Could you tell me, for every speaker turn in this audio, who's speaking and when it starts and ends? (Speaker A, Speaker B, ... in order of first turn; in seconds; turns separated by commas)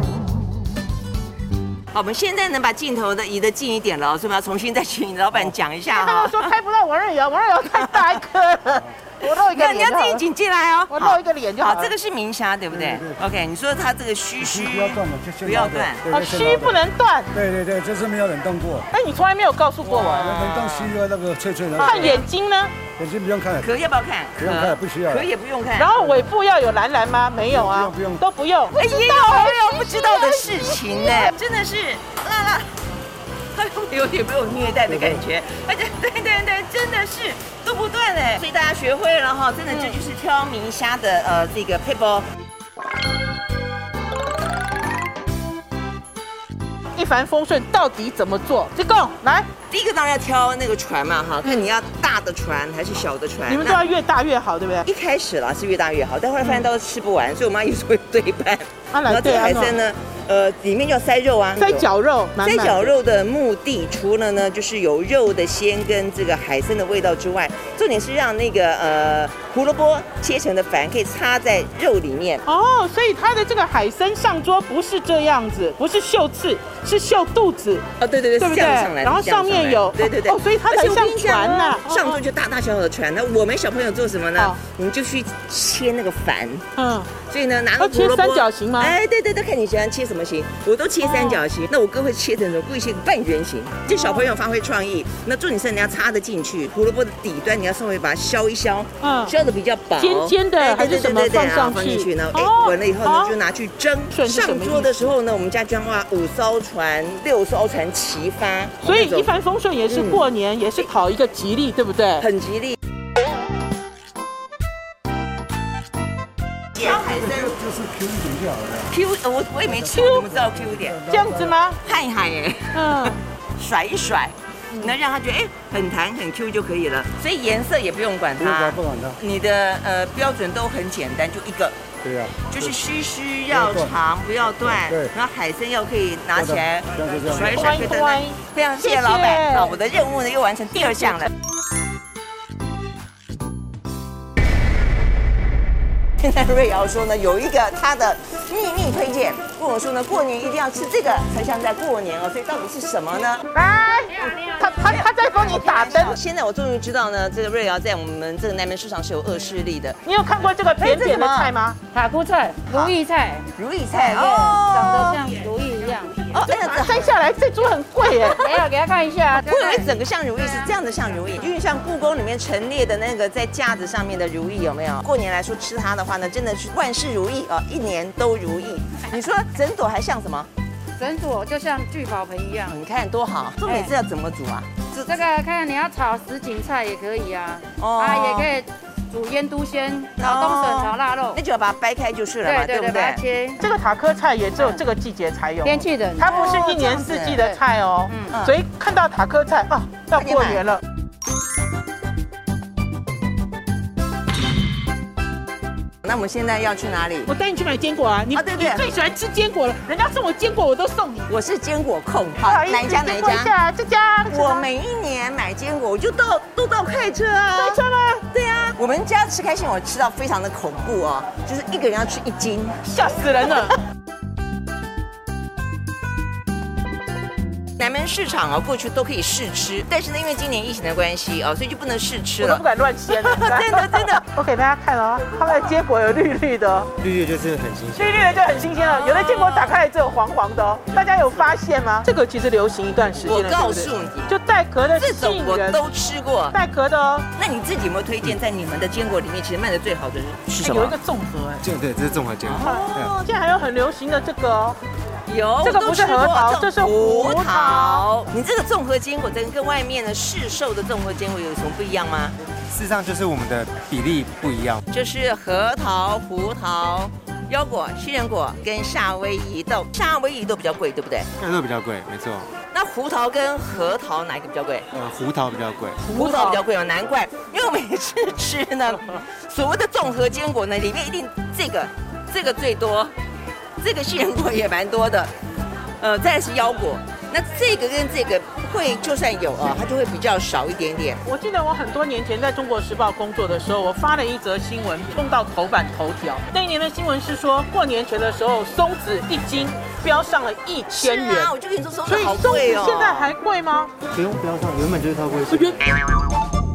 Speaker A: 1.9-6.5, Speaker B: 5.9-10.2, Speaker A: 7.7-8.2, Speaker A: 9.2-16.1, Speaker B: 10.9-11.9, Speaker C: 14.9-16.7, Speaker B: 16.1-17.4, Speaker C: 17.4-18.9, Speaker B: 18.9-20.3, Speaker A: 19.8-21.0, Speaker C: 20.2-22.0, Speaker B: 21.8-22.8, Speaker A: 21.9-22.2, Speaker C: 23.0-23.6, Speaker A: 23.6-25.9, Speaker C: 24.4-25.2, Speaker B: 25.8-31.3, Speaker A: 28.8-32.7, Speaker A: 33.5-42.3, Speaker B: 47.0-49.5, Speaker A: 49.7-53.8, Speaker B: 53.5-54.9, Speaker A: 54.9-61.9, Speaker B: 58.9-59.8, Speaker B: 61.6-62.9, Speaker A: 62.4-72.4, Speaker B: 72.5-77.9, Speaker A: 78.0-86.7, Speaker B: 78.4-82.2, Speaker B: 86.8-87.1, Speaker A: 87.3-109.3, Speaker B: 87.8-89.0, Speaker B: 91.0-91.4, Speaker B: 93.9-94.3, Speaker B: 99.0-99.3, Speaker B: 100.0-103.3, Speaker B: 104.1-105.1, Speaker B: 108.8-112.2, Speaker A: 109.9-110.2, Speaker A: 112.2-112.8, Speaker A: 116.8-117.6, Speaker C: 117.3-118.8, Speaker A: 118.9-121.0, Speaker B: 119.9-120.3, Speaker C: 120.4-121.4, Speaker B: 121.1-121.8, Speaker A: 121.8-131.8, Speaker B: 122.7-123.2, Speaker C: 128.5-129.2, Speaker C: 132.1-132.4, Speaker A: 132.3-141.3, Speaker C: 137.0-137.6, Speaker B: 137.4-139.7, Speaker A: 146.2-153.4, Speaker B: 153.5-156.2, Speaker A: 154.8-160.0, Speaker B: 160.0-161.8, Speaker A: 160.8-161.5, Speaker D: 161.8-166.2, Speaker A: 162.7-163.0, Speaker A: 163.6-165.4, Speaker A: 166.3-167.1, Speaker B: 166.4-168.6, Speaker D: 168.2-169.9, Speaker A: 169.3-180.5, Speaker D: 181.0-182.8, Speaker A: 182.7-185.2, Speaker D: 185.1-191.4, Speaker A: 187.8-188.5, Speaker A: 190.2-193.2, Speaker D: 192.4-193.6, Speaker B: 193.6-200.8, Speaker D: 195.7-196.5, Speaker A: 196.3-197.4, Speaker A: 198.1-198.6, Speaker A: 200.2-200.6, Speaker A: 206.0-207.3, Speaker B: 207.3-211.3, Speaker A: 208.3-208.8, Speaker A: 211.3-213.5, Speaker B: 212.4-214.7, Speaker A: 214.3-222.8, Speaker B: 217.5-218.3, Speaker B: 222.8-223.7, Speaker A: 227.8-234.2, Speaker B: 232.4-236.9, Speaker E: 237.0-238.3, Speaker B: 237.9-245.8, Speaker A: 238.8-239.7, Speaker A: 243.2-244.3, Speaker A: 245.0-246.6, Speaker B: 246.5-247.3, Speaker A: 247.4-250.9, Speaker B: 250.6-251.7, Speaker E: 251.6-253.1, Speaker A: 252.4-253.2, Speaker B: 252.6-254.8, Speaker A: 255.3-262.4, Speaker B: 255.6-258.1, Speaker E: 262.7-264.8, Speaker A: 264.9-271.3, Speaker E: 271.4-272.5, Speaker A: 272.7-274.9, Speaker E: 274.9-276.1, Speaker B: 276.0-276.6, Speaker A: 276.1-283.1, Speaker A: 283.8-285.3, Speaker A: 286.0-291.2, Speaker B: 291.2-301.5, Speaker A: 300.9-303.3, Speaker B: 302.1-303.9, Speaker E: 304.1-305.8, Speaker B: 305.5-305.8